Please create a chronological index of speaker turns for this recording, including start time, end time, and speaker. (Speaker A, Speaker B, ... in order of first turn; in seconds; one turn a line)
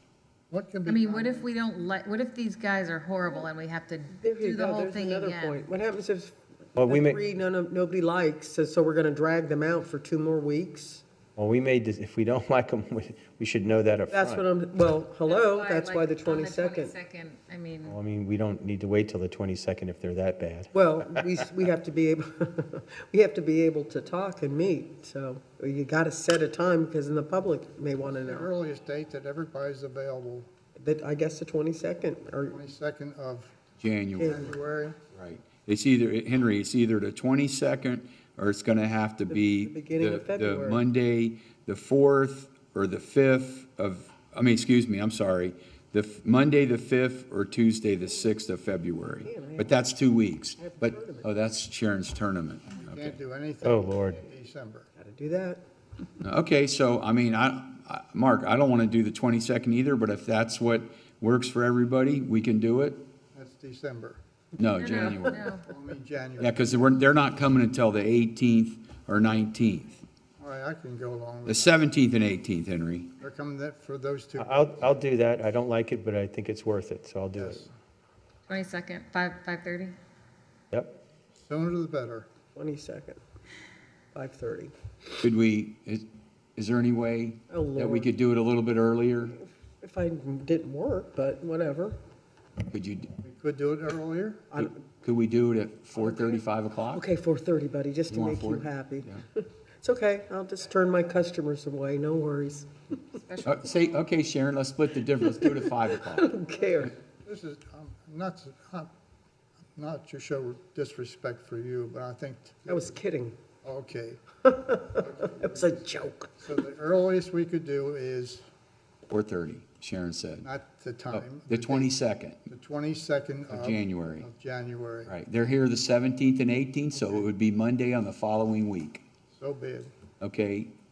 Speaker A: 0.5-1.4
Speaker B: 0.8-5.6
Speaker C: 4.2-11.0
Speaker D: 6.8-7.2
Speaker D: 11.4-14.4
Speaker C: 14.1-16.9
Speaker B: 15.2-18.0
Speaker D: 17.8-20.7
Speaker C: 20.7-28.5
Speaker A: 28.2-30.5
Speaker C: 30.7-32.6
Speaker A: 32.5-33.5
Speaker E: 33.8-34.4
Speaker C: 34.2-34.5
Speaker A: 34.2-35.0
Speaker E: 35.1-53.2
Speaker C: 39.3-40.8
Speaker C: 49.1-49.8
Speaker C: 50.6-51.3
Speaker A: 52.8-54.9
Speaker D: 53.6-54.2
Speaker C: 55.0-55.6
Speaker E: 56.2-63.0
Speaker A: 63.3-64.2
Speaker E: 64.5-65.4
Speaker B: 64.8-65.6
Speaker A: 65.6-66.8
Speaker E: 66.4-70.0
Speaker A: 70.4-71.8
Speaker E: 71.5-73.1
Speaker A: 73.2-74.7
Speaker D: 74.4-77.7
Speaker A: 77.3-77.7
Speaker B: 78.5-79.9
Speaker A: 81.3-82.3
Speaker C: 82.5-83.2
Speaker C: 84.1-84.7
Speaker E: 85.2-89.4
Speaker C: 87.5-88.1
Speaker C: 89.8-92.0
Speaker E: 92.7-93.1
Speaker A: 93.2-94.5
Speaker C: 94.5-94.8
Speaker E: 94.6-97.1
Speaker C: 96.9-102.7
Speaker E: 98.1-99.2
Speaker B: 103.2-103.8
Speaker E: 103.4-106.4
Speaker C: 105.4-106.9
Speaker A: 106.8-108.9
Speaker A: 109.8-113.0
Speaker C: 112.7-113.4
Speaker A: 113.6-114.2
Speaker C: 114.4-116.3
Speaker A: 115.0-118.4
Speaker E: 119.1-120.5
Speaker A: 120.4-121.9
Speaker E: 121.1-122.4
Speaker A: 122.5-125.1
Speaker E: 123.5-124.3
Speaker E: 125.0-129.0
Speaker A: 129.3-129.9
Speaker E: 130.2-130.7